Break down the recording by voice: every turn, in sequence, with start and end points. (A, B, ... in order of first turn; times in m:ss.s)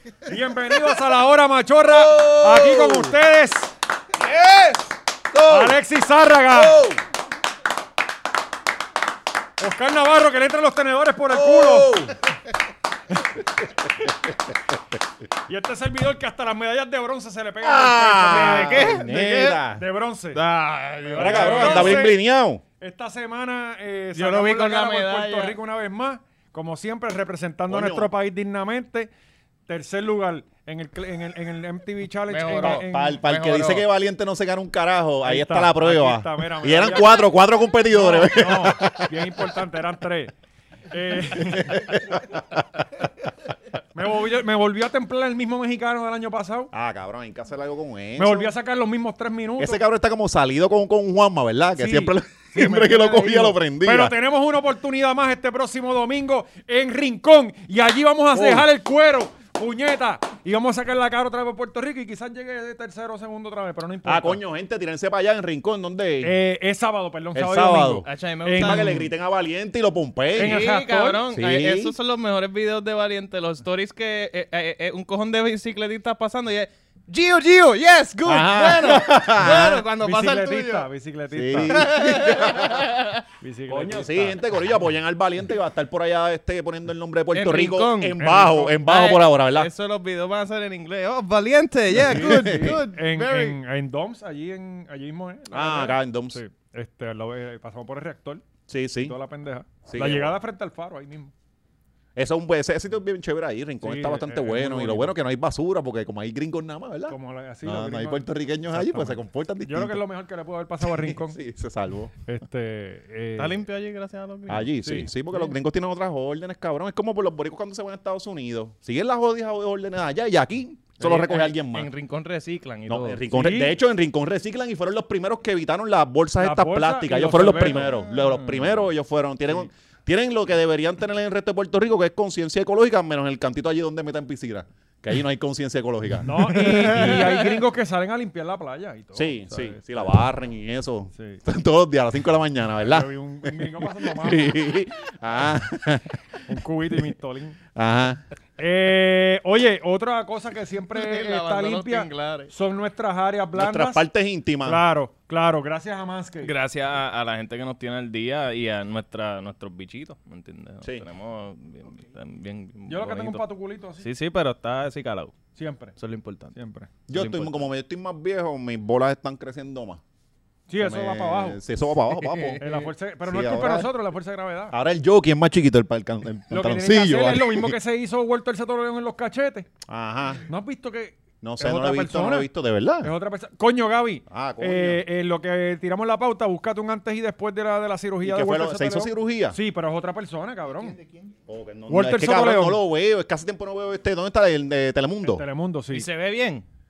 0:00.2-0:03.7 A
0:01.9-0:03.1 B
0:04.2-0:05.8 B
0:05.4-0:06.8 A
0:06.5-0:07.0 B
0:09.6-0:12.0 A
0:11.3-0:12.1 B
0:15.5-0:19.0 A
0:17.6-0:19.8 B
0:18.3-0:19.6 C
0:19.8-0:20.4 A
0:20.3-0:22.1 C
0:21.1-0:22.6 B
0:21.2-0:22.2 A
0:22.8-0:29.1 A
0:24.1-0:25.6 C
0:27.7-0:28.1 B
0:29.7-0:33.2 A
0:32.3-0:33.8 C
0:32.6-0:39.1 B
0:35.2-0:37.2 A
0:37.9-0:40.3 A
0:40.9-0:42.0 A
0:41.4-0:42.4 B
0:43.9-0:46.7 A
0:46.7-0:48.5 B
0:48.2-0:49.8 A
0:49.6-0:54.1 B
0:51.8-1:04.4 A
0:58.3-0:58.6 B
1:04.0-1:06.4 B
1:06.2-1:09.0 A
1:07.3-1:08.1 B
1:08.0-1:09.0 C
1:08.6-1:10.6 B
1:10.4-1:11.2 A
1:10.4-1:20.9 C
1:11.3-1:11.9 B
1:18.2-1:19.9 B
1:20.0-1:21.9 A
1:21.3-1:23.0 B
1:21.7-1:23.2 C
1:23.4-1:24.4 A
1:23.7-1:29.7 B
1:27.3-1:28.2 C
1:28.2-1:28.8 A
1:28.8-1:33.6 C
1:32.0-1:32.8 B
1:32.0-1:38.4 A
1:35.5-1:36.4 B
1:38.7-1:39.1 B
1:39.0-1:41.3 A
1:39.8-1:40.3 B
1:42.2-1:50.0 B
1:43.8-1:45.1 A
1:47.1-1:51.4 A
1:50.8-1:52.1 B
1:52.2-1:53.6 A
1:53.4-1:54.7 C
1:54.5-2:01.9 B
1:54.8-1:55.5 A
2:01.0-2:03.3 C
2:02.9-2:17.2 B
2:03.3-2:03.8 A
2:06.4-2:07.9 A
2:16.2-2:19.8 A
2:16.7-2:17.5 C
2:19.1-2:26.2 B
2:21.1-2:21.4 A
2:22.9-2:24.6 A
2:26.5-2:27.6 A
2:27.8-2:28.2 B
2:28.6-2:34.0 A
2:30.9-2:32.5 C
2:33.5-2:34.8 B
2:34.6-2:36.5 A
2:36.4-2:43.4 C
2:42.9-2:44.1 A
2:44.0-2:45.3 C
2:45.5-2:45.9 A
2:46.0-2:46.5 C
2:46.5-2:46.9 A
2:47.1-2:50.0 B
2:47.1-2:47.6 C
2:50.7-2:51.6 A
2:50.8-2:52.6 B
2:52.1-2:52.8 C
2:52.6-2:54.7 A
2:53.2-2:53.9 B
2:54.7-2:57.7 B
2:56.5-2:59.7 A
2:59.9-3:00.4 B
3:00.5-3:02.5 A
3:01.4-3:03.1 B
3:03.0-3:11.0 A
3:04.3-3:05.0 B
3:08.2-3:09.6 B
3:11.5-3:15.4 B
3:11.9-3:12.8 A
3:15.2-3:16.1 A
3:15.9-3:16.6 C